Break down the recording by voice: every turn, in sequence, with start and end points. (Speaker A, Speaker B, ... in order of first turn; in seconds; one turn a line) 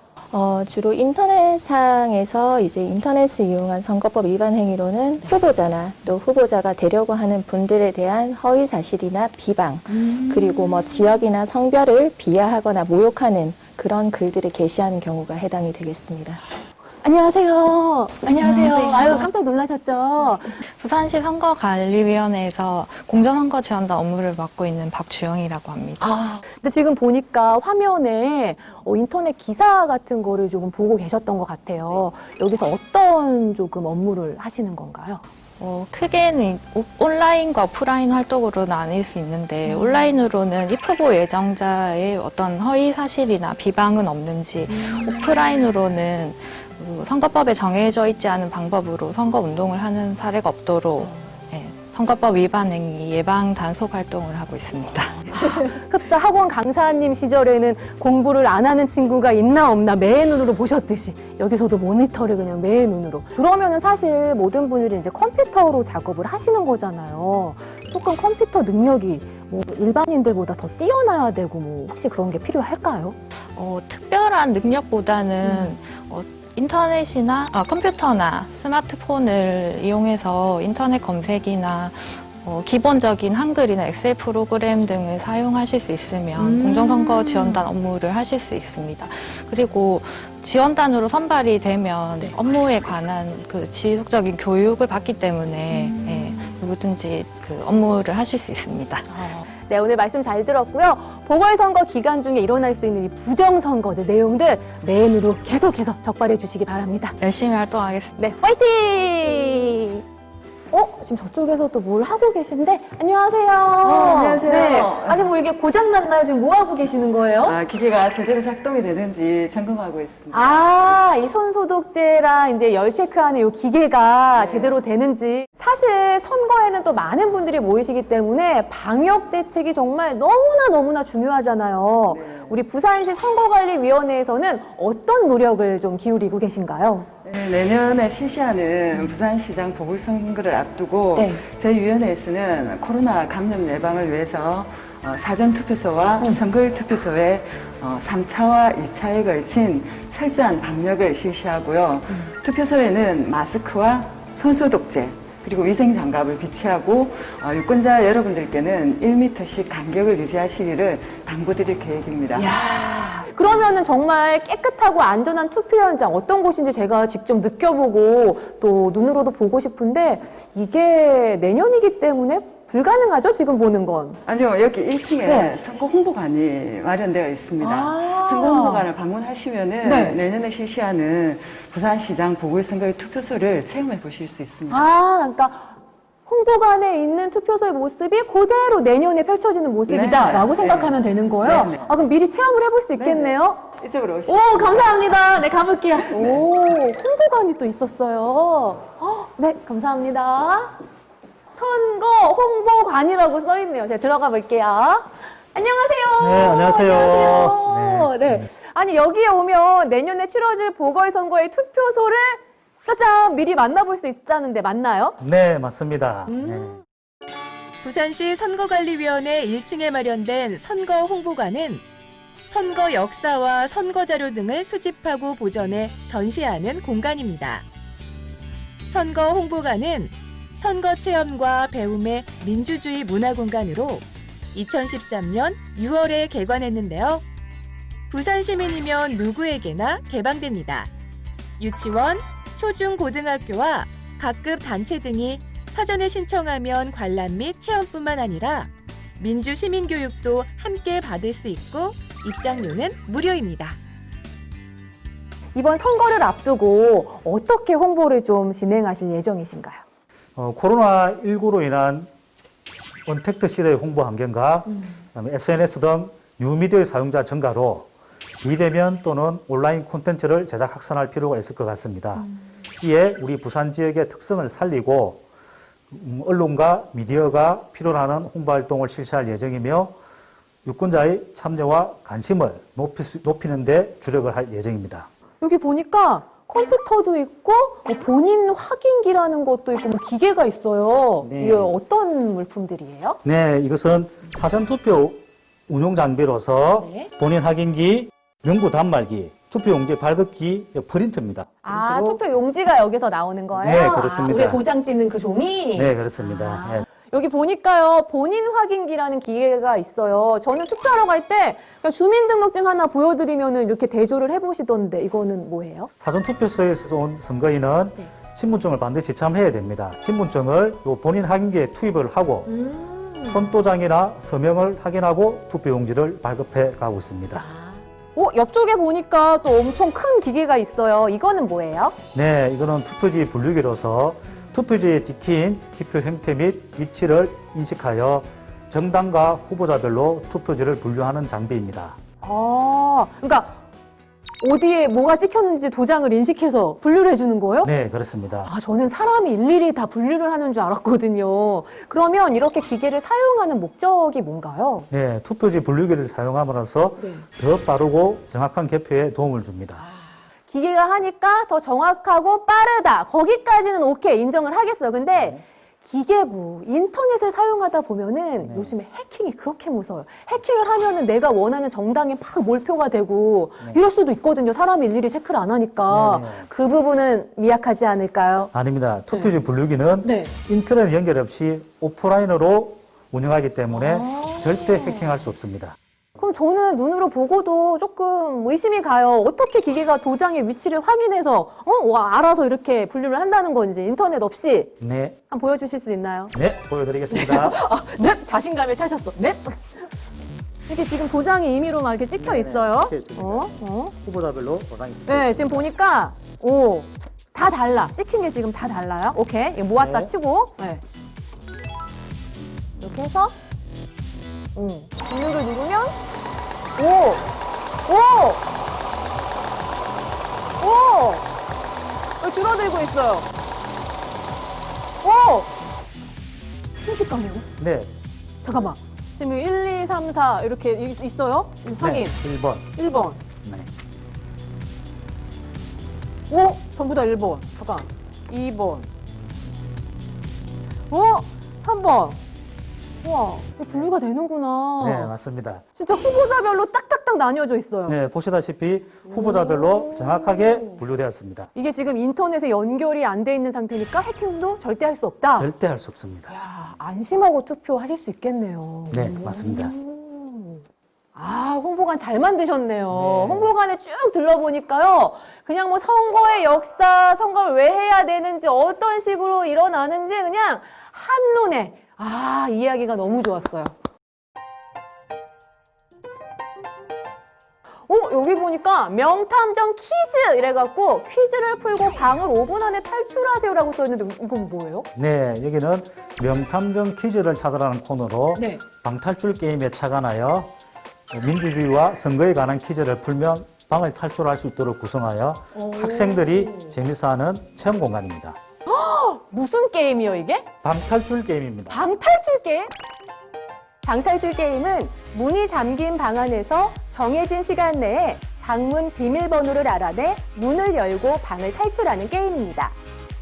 Speaker A: 0.3-16.4
Speaker B: 10.1-10.8
Speaker B: 17.0-20.6
Speaker C: 18.4-19.2
Speaker C: 20.8-26.1
Speaker B: 26.0-35.2
Speaker C: 35.6-55.6
Speaker B: 39.7-40.1
Speaker B: 55.3-73.2
Speaker C: 73.5-99.1
Speaker B: 75.4-75.7
Speaker B: 86.4-87.7
Speaker B: 95.7-96.5
Speaker B: 99.1-107.2
Speaker C: 107.2-108.1
Speaker B: 108.2-110.0
Speaker B: 110.7-117.6
Speaker D: 113.8-115.3
Speaker D: 117.4-121.0
Speaker B: 120.3-137.1
Speaker D: 124.3-124.8
Speaker D: 132.1-132.6
Speaker D: 137.2-162.6
Speaker B: 141.2-141.4
Speaker B: 162.3-174.2
Speaker D: 174.2-184.9
Speaker B: 175.2-175.6
Speaker B: 177.6-178.9
Speaker B: 179.8-180.2
Speaker B: 184.7-185.7
Speaker B: 186.3-193.7
Speaker D: 189.9-191.9
Speaker D: 193.0-195.2
Speaker B: 194.3-200.8
Speaker D: 196.1-196.4
Speaker B: 201.6-215.2
Speaker E: 206.2-208.5
Speaker E: 215.2-216.8
Speaker B: 216.3-216.8
Speaker F: 217.8-221.8
Speaker F: 222.5-227.7
Speaker F: 228.9-237.2
Speaker F: 238.1-240.9
Speaker F: 241.6-253.8
Speaker B: 255.5-259.8
Speaker E: 260.4-262.1
Speaker E: 263.1-267.9
Speaker E: 268.4-275.2
Speaker E: 275.9-280.0
Speaker E: 280.6-285.1
Speaker B: 285.4-293.2
Speaker E: 291.2-291.8
Speaker E: 293.2-302.2
Speaker B: 296.8-297.1
Speaker B: 301.6-315.9
Speaker E: 303.6-304.6
Speaker E: 305.8-306.9
Speaker E: 316.0-322.5
Speaker B: 322.5-323.4
Speaker E: 323.3-327.5
Speaker B: 327.4-332.0
Speaker E: 332.1-342.0
Speaker B: 342.2-343.6
Speaker B: 344.4-347.7
Speaker E: 347.6-348.5
Speaker B: 348.5-354.9
Speaker E: 354.9-359.8
Speaker B: 357.0-357.2
Speaker B: 359.8-378.5
Speaker E: 365.1-365.4
Speaker E: 368.4-368.8
Speaker E: 375.9-376.5
Speaker E: 378.5-385.8
Speaker B: 379.1-379.4
Speaker B: 380.0-380.3
Speaker B: 383.7-385.2
Speaker B: 386.2-394.7
Speaker E: 394.8-395.2
Speaker B: 395.3-396.3
Speaker E: 396.3-397.6
Speaker B: 397.1-399.9
Speaker B: 400.7-403.9
Speaker E: 402.2-405.7
Speaker B: 405.1-410.8
Speaker E: 409.8-410.1
Speaker B: 412.8-413.4
Speaker B: 414.6-416.0
Speaker B: 416.8-417.3
Speaker B: 417.9-418.4
Speaker B: 420.6-421.2
Speaker B: 422.2-423.3
Speaker B: 425.0-425.5
Speaker B: 426.8-427.5
Speaker E: 427.6-427.9
Speaker B: 428.4-432.1
Speaker E: 431.8-432.8
Speaker B: 432.8-433.2
Speaker E: 433.4-433.7
Speaker B: 436.3-438.9
Speaker B: 440.9-442.2
Speaker B: 443.0-445.1
Speaker E: 444.8-445.6
Speaker B: 445.8-448.0
Speaker E: 447.9-451.5
Speaker B: 449.1-450.8
Speaker B: 451.6-455.5
Speaker E: 455.4-456.3
Speaker B: 456.3-460.6
Speaker E: 458.9-459.7
Speaker B: 461.1-473.7
Speaker E: 462.9-463.5
Speaker B: 477.9-484.9
Speaker E: 485.0-490.5
Speaker B: 488.4-488.6
Speaker E: 491.1-498.4
Speaker B: 495.6-496.7
Speaker B: 498.7-500.5
Speaker E: 500.6-501.8
Speaker B: 501.7-502.7
Speaker B: 503.8-512.8